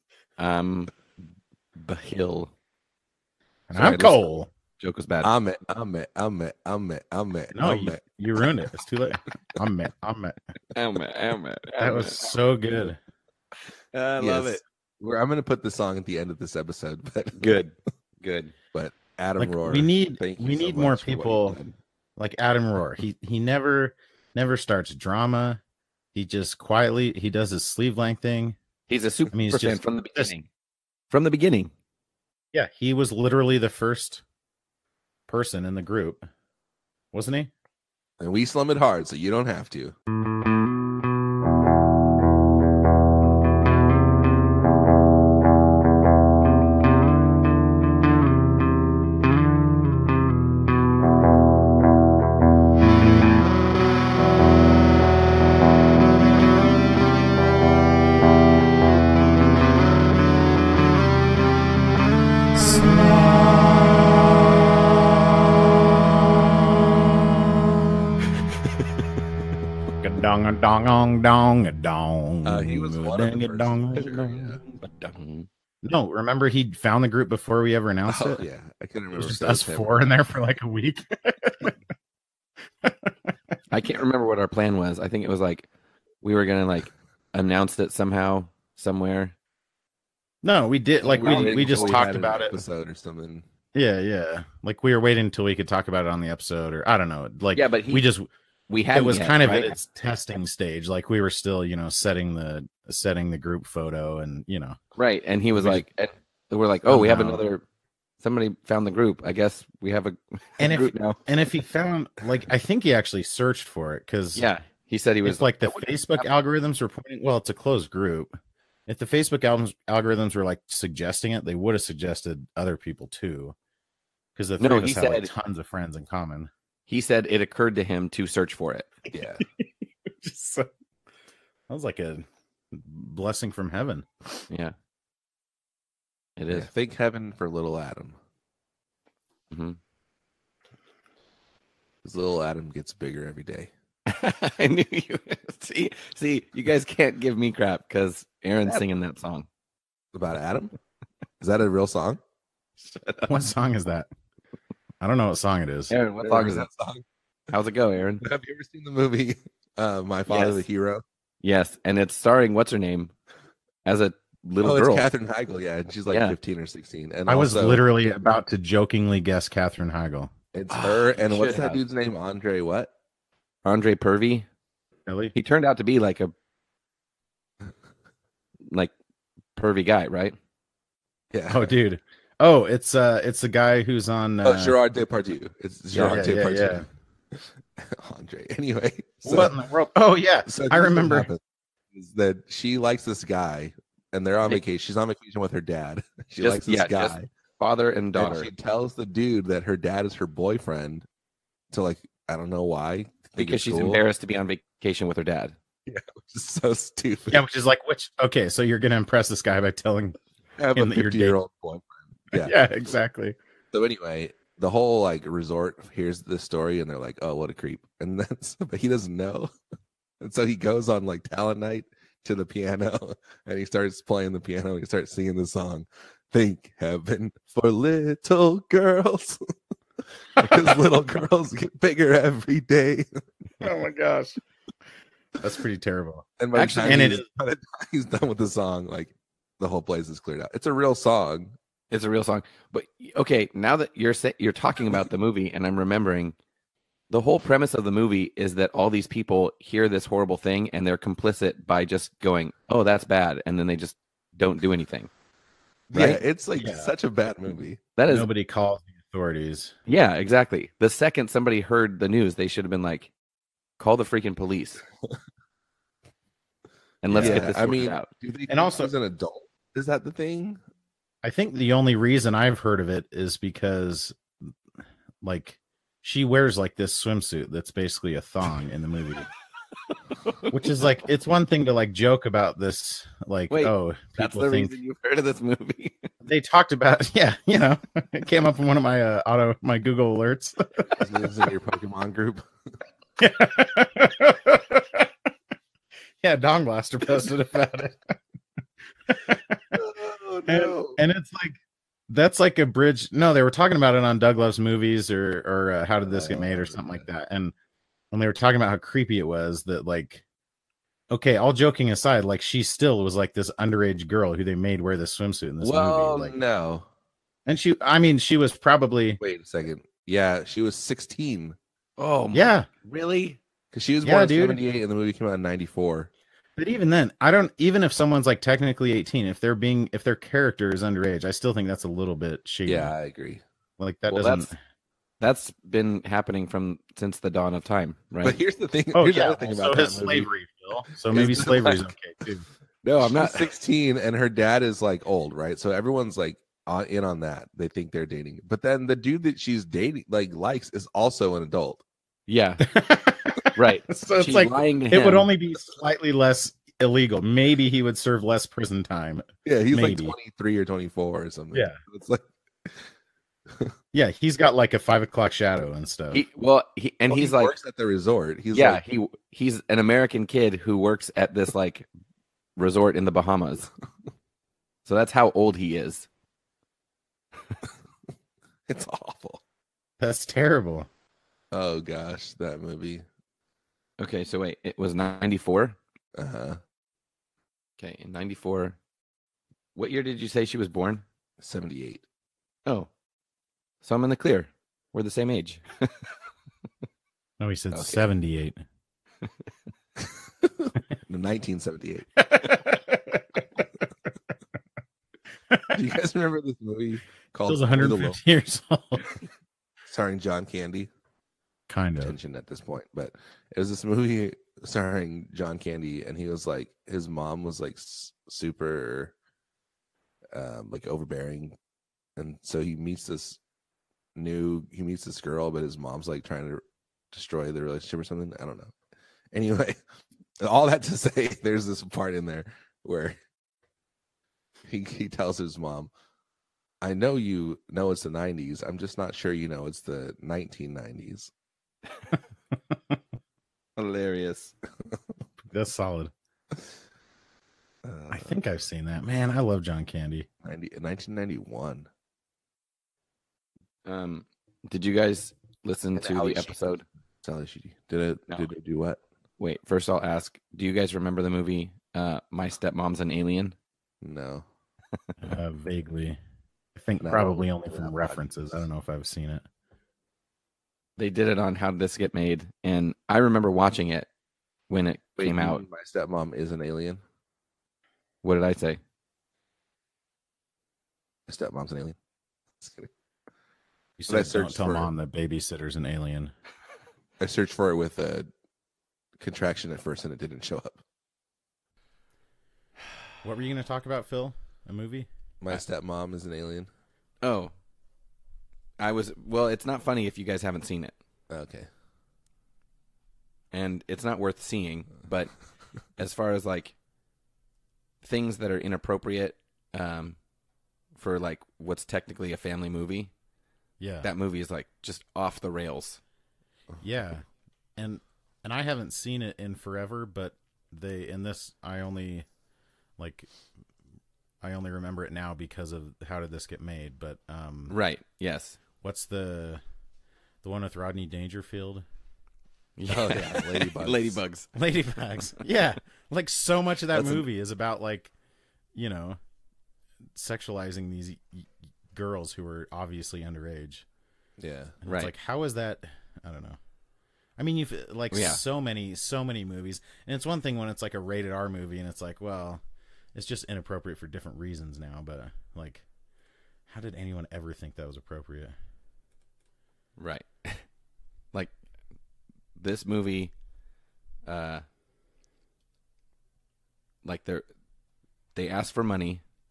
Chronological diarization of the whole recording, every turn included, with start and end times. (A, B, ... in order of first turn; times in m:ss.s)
0:00.4-0:01.1 A
0:01.8-0:02.5 A
0:03.7-0:04.5 B
0:03.7-0:05.3 A
0:05.2-0:08.6 C
0:07.5-0:10.4 B
0:10.8-0:12.4 A
0:11.8-0:13.0 B
0:13.9-0:14.6 A
0:14.2-0:17.6 C
0:17.4-0:18.5 A
0:18.7-0:21.8 C
0:19.4-0:21.6 B
0:22.2-0:25.6 B
0:26.1-0:28.6 B
0:28.9-0:30.5 A
0:29.3-0:30.3 B
0:31.1-0:31.7 A
0:32.5-0:34.2 B
0:35.3-0:36.2 B
0:37.1-0:37.5 B
0:38.2-0:40.0 C
1:02.6-1:03.9 B
1:10.0-1:14.7 B
1:12.4-1:14.6 C
1:14.9-1:15.5 A
1:15.8-1:18.4 B
1:18.1-1:19.9 C
1:19.2-1:21.8 B
1:22.8-1:23.4 B
1:23.7-1:25.7 A
1:26.2-1:29.3 A
1:30.4-1:32.5 B
1:31.0-1:32.4 A
1:31.1-1:33.5 C
1:33.7-1:38.3 B
1:37.5-1:38.1 A
1:38.7-1:39.8 A
1:38.9-1:44.8 B
1:45.0-1:47.6 A
1:45.6-1:45.8 B
1:46.9-1:47.4 B
1:48.2-1:51.2 A
1:50.6-1:54.5 B
1:54.4-1:55.5 A
1:55.2-1:58.3 B
1:58.9-2:03.6 B
2:04.4-2:06.5 B
2:04.6-2:05.3 A
2:06.9-2:08.9 A
2:09.1-2:09.4 C
2:10.2-2:10.7 B
2:11.7-2:14.1 B
2:14.5-2:14.7 A
2:16.4-2:16.7 A
2:16.5-2:18.2 C
2:19.5-2:19.8 A
2:22.0-2:23.7 C
2:24.1-2:29.5 A
2:30.1-2:30.8 C
2:31.4-2:32.2 C
2:32.8-2:33.3 A
2:33.3-2:34.1 B
2:35.0-2:35.9 B
2:35.9-2:36.7 A
2:36.2-2:37.0 C
2:37.5-2:38.2 A
2:38.2-2:41.0 C
2:40.3-2:40.6 A
2:41.4-2:43.1 A
2:43.8-2:45.1 A
2:44.6-2:47.8 C
2:46.1-2:46.4 A
2:47.3-2:50.3 B
2:50.5-2:52.9 C
2:50.7-2:51.8 A
2:53.6-2:54.5 A
2:55.1-2:55.3 B
2:55.4-2:56.3 A
2:58.7-2:58.9 A
2:59.6-3:00.4 A
3:01.3-3:01.7 C
3:01.5-3:04.8 B
3:04.4-3:09.6 C
3:05.9-3:06.4 A
3:06.0-3:06.9 B
3:09.2-3:11.3 B
3:10.5-3:11.4 C
3:11.9-3:17.3 C
3:16.4-3:18.5 A
3:18.2-3:21.1 C
3:21.7-3:24.0 C
3:23.4-3:25.6 A
3:25.9-3:27.4 C
3:27.3-3:30.2 B
3:30.6-3:32.6 C
3:30.8-3:31.4 B
3:32.3-3:33.4 B
3:33.7-3:39.5 C
3:40.2-3:49.4 C
3:50.2-3:53.1 C
3:53.6-3:54.4 B
3:55.4-3:56.3 B
3:56.4-4:01.6 C
3:56.5-3:57.2 A
3:56.8-3:57.2 B
4:01.9-4:06.4 A
4:07.1-4:15.1 A
4:15.9-4:17.8 C
4:15.9-4:16.2 A
4:16.6-4:16.9 B
4:18.0-4:18.3 A
4:18.1-4:19.8 B
4:19.9-4:23.1 A
4:23.8-4:24.8 A
4:27.0-4:28.1 A
4:27.1-4:27.6 B
4:27.2-4:30.6 C
4:28.5-4:28.9 B
4:31.2-4:34.5 B
4:35.2-4:39.3 B
4:40.2-4:40.9 A
4:40.5-4:44.7 B
4:43.5-4:46.1 A
4:46.2-4:51.0 B
4:50.9-4:52.4 C
4:53.2-4:55.1 B
4:56.2-4:58.0 B
4:59.2-4:59.6 B
4:59.8-5:01.0 C
5:00.5-5:01.6 B
5:02.1-5:07.5 B
5:06.1-5:07.0 C
5:08.1-5:10.2 B
5:11.1-5:16.4 B
5:15.6-5:16.9 C
5:17.5-5:19.2 B
5:19.2-5:21.6 C
5:22.0-5:22.5 A
5:22.3-5:22.7 B
5:22.8-5:26.1 C
5:24.0-5:24.6 B
5:26.6-5:32.9 B
5:32.7-5:33.4 C
5:33.8-5:34.6 B
5:34.1-5:34.5 A
5:35.2-5:38.4 A
5:38.2-5:40.3 C
5:38.9-5:42.4 B
5:41.1-5:41.9 C
5:42.8-5:51.8 C
5:43.0-5:43.5 A
5:52.3-5:52.7 A
5:52.6-6:00.2 B
5:53.6-5:55.3 A
5:59.4-6:02.9 C
6:01.5-6:01.8 B
6:03.9-6:06.2 B
6:06.1-6:07.5 A
6:07.1-6:08.8 C
6:08.5-6:11.9 A
6:12.6-6:13.7 A
6:14.9-6:16.1 A
6:18.7-6:19.4 C
6:20.0-6:20.9 B
6:21.5-6:23.0 C
6:24.0-6:25.8 A
6:26.2-6:26.6 C
6:27.8-6:28.8 A
6:29.8-6:31.0 A
6:31.4-6:32.0 C
6:33.8-6:35.9 A
6:37.4-6:38.6 B
6:37.7-6:38.0 C
6:40.0-6:42.1 C
6:42.3-6:43.7 B
6:45.5-6:45.8 B
6:45.7-6:48.2 C
6:47.5-6:49.0 B
6:49.9-6:50.9 C
6:51.7-6:52.2 B
6:52.0-6:59.1 C
7:00.3-7:01.6 C
7:02.2-7:03.4 C
7:04.2-7:06.6 C
7:07.1-7:08.7 C
7:09.3-7:09.8 C
7:10.4-7:13.2 C
7:14.7-7:15.9 C
7:16.8-7:21.3 C
7:22.5-7:23.0 B
7:23.8-7:24.5 A
7:25.5-7:26.1 B
7:27.8-7:28.3 C
7:28.1-7:30.3 B
7:30.4-7:31.9 C
7:33.9-7:36.8 A
7:36.0-7:36.6 C
7:37.2-7:39.0 C
7:39.4-7:43.6 A
7:44.0-7:44.5 C
7:45.2-7:46.2 B
7:46.8-7:49.4 B
7:47.0-7:48.2 C
7:51.0-7:54.1 A
7:54.7-7:55.6 A
7:55.2-7:57.0 C
7:58.2-7:58.8 A
8:01.3-8:02.0 C
8:02.6-8:02.9 C
8:04.0-8:06.3 B
8:04.1-8:04.9 C
8:07.2-8:08.3 C
8:09.2-8:10.8 C
8:13.2-8:15.1 B
8:15.4-8:16.7 C
8:17.2-8:17.5 A
8:18.8-8:21.0 A
8:21.3-8:21.7 C
8:23.5-8:25.4 A
8:26.0-8:26.8 A
8:28.0-8:30.2 A
8:31.0-8:33.1 A
8:33.8-8:34.1 B
8:34.0-8:36.0 A
8:36.8-8:42.3 B
8:43.0-8:43.3 B
8:44.4-8:47.8 B
8:47.7-8:48.6 A
8:48.8-8:49.6 B
8:50.4-8:51.8 B
8:52.8-8:54.5 A
8:52.9-8:54.2 C
8:54.6-8:58.1 B
8:56.9-8:57.2 A
8:58.7-8:59.2 B
9:00.1-9:03.9 B
9:04.4-9:04.8 C
9:04.8-9:06.6 B
9:04.9-9:05.1 A
9:07.4-9:12.6 B
9:08.1-9:08.4 A
9:13.1-9:15.9 B
9:16.7-9:18.6 B
9:20.0-9:20.7 A
9:22.6-9:23.3 A
9:24.2-9:24.6 A
9:27.0-9:27.5 A
9:28.4-9:29.2 A